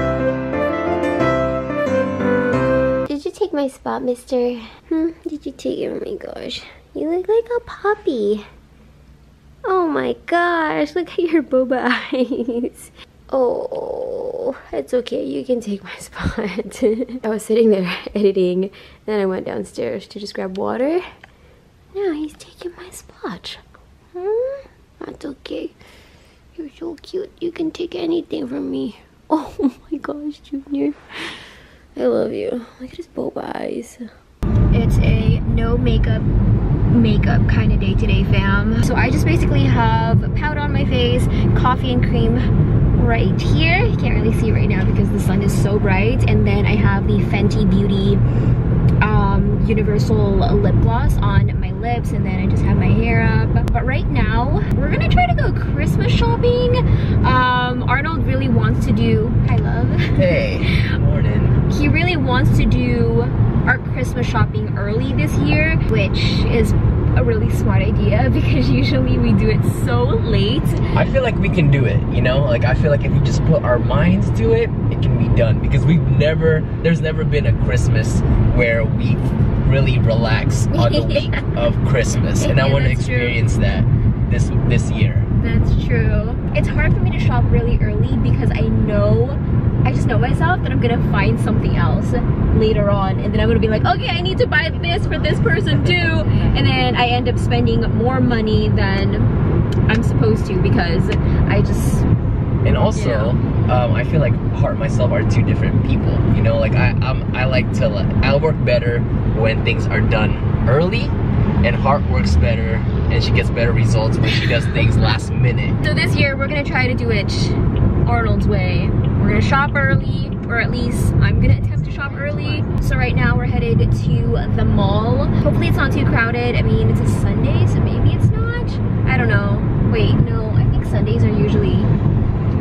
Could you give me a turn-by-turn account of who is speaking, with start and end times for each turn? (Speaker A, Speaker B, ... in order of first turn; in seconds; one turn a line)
Speaker A: 3.0-8.4
Speaker A: 9.6-21.0
Speaker A: 21.9-23.6
Speaker A: 24.1-25.8
Speaker A: 26.5-31.4
Speaker A: 31.9-34.1
Speaker A: 34.7-36.3
Speaker A: 36.9-48.2
Speaker A: 49.0-60.9
Speaker B: 60.1-61.6
Speaker A: 61.7-70.8
Speaker B: 70.9-85.3
Speaker A: 80.7-81.5
Speaker A: 82.4-83.4
Speaker A: 85.4-99.3
Speaker A: 99.9-102.1
Speaker B: 102.6-115.8
Speaker A: 102.9-103.3
Speaker A: 115.8-131.9